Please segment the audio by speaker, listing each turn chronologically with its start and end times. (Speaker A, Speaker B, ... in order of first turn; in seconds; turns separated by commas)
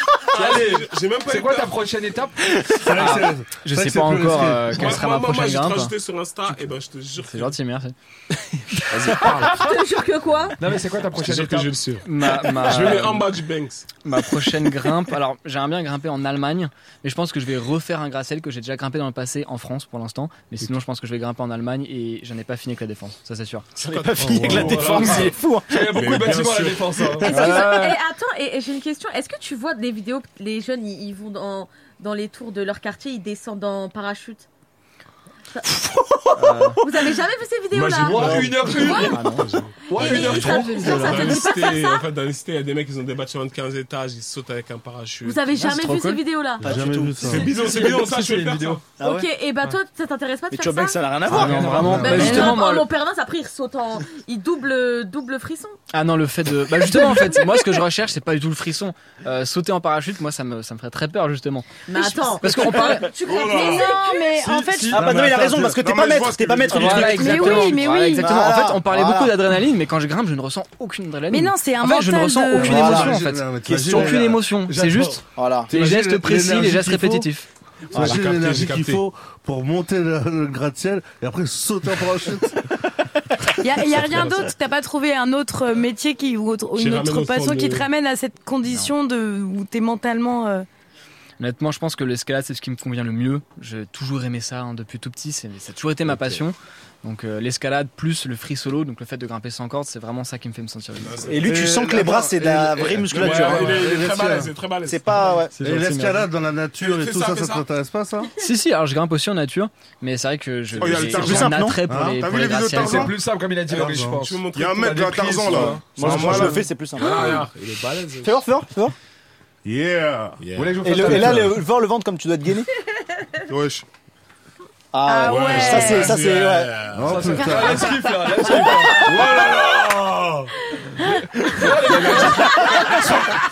Speaker A: 0.3-1.8, Speaker B: 0.3-2.4, Speaker C: 2.6-4.8, Speaker D: 2.9-5.9, Speaker A: 4.8-7.5, Speaker D: 7.2-9.7, Speaker A: 8.9-9.7, Speaker E: 9.4-10.6, Speaker B: 10.6-11.7, Speaker A: 11.1-13.9, Speaker D: 12.0-13.4, Speaker D: 14.0-23.7, Speaker F: 23.8-26.3, Speaker A: 23.8-25.3, Speaker C: 24.2-24.9, Speaker B: 24.4-27.3, Speaker A: 25.9-27.2, Speaker D: 27.2-28.0, Speaker E: 27.2-34.5, Speaker F: 27.3-27.9, Speaker F: 36.1-36.7, Speaker D: 36.4-36.8, Speaker E: 36.8-39.3, Speaker A: 37.7-39.7, Speaker B: 38.0-39.2, Speaker D: 38.1-41.5, Speaker E: 39.8-42.0, Speaker B: 39.9-41.3, Speaker A: 40.4-45.4, Speaker E: 45.2-46.7, Speaker D: 45.5-46.2, Speaker C: 46.6-47.5, Speaker F: 46.6-47.5, Speaker B: 47.2-48.8, Speaker A: 47.2-48.8, Speaker F: 49.0-49.3, Speaker E: 49.0-51.0, Speaker F: 50.5-52.5, Speaker D: 51.2-52.9, Speaker C: 51.5-52.5, Speaker E: 52.0-55.8, Speaker G: 52.2-52.6, Speaker D: 55.9-61.7, Speaker E: 56.9-57.5, Speaker E: 61.8-64.3, Speaker G: 61.9-65.1, Speaker D: 62.4-63.2, Speaker H: 63.2-63.9, Speaker B: 64.3-65.9, Speaker F: 64.9-69.3, Speaker H: 65.7-67.4, Speaker D: 66.7-77.5, Speaker G: 66.9-68.3, Speaker G: 71.3-72.8, Speaker B: 72.5-73.0, Speaker C: 72.6-74.6, Speaker F: 72.8-74.3, Speaker B: 74.7-75.2, Speaker F: 75.3-75.7, Speaker C: 75.7-77.3, Speaker C: 77.9-82.7, Speaker A: 78.0-79.0, Speaker G: 83.6-90.7, Speaker A: 86.8-87.9, Speaker D: 88.6-88.9, Speaker D: 91.4-101.3, Speaker A: 101.0-101.4, Speaker F: 101.3-103.9, Speaker C: 101.4-104.5, Speaker A: 103.1-105.4, Speaker F: 104.8-105.5, Speaker B: 105.5-105.8, Speaker C: 105.6-108.3, Speaker D: 105.7-106.3, Speaker A: 106.8-107.7, Speaker D: 108.4-113.2, Speaker H: 110.8-113.1, Speaker F: 110.9-111.8, Speaker C: 111.9-112.8, Speaker B: 112.7-116.0, Speaker C: 113.7-114.2, Speaker A: 114.2-114.9, Speaker H: 114.5-117.3, Speaker A: 115.5-118.4, Speaker F: 116.0-117.4, Speaker F: 118.2-119.0, Speaker C: 119.7-120.3, Speaker H: 119.7-120.3, Speaker A: 120.4-120.8, Speaker B: 120.5-121.6, Speaker F: 120.8-122.7, Speaker H: 123.5-123.8, Speaker F: 124.9-126.8, Speaker G: 125.0-126.3, Speaker A: 125.3-127.3, Speaker C: 126.9-127.9, Speaker B: 127.0-129.1, Speaker G: 127.2-129.5, Speaker A: 128.5-130.5, Speaker B: 131.4-133.1, Speaker G: 131.6-132.3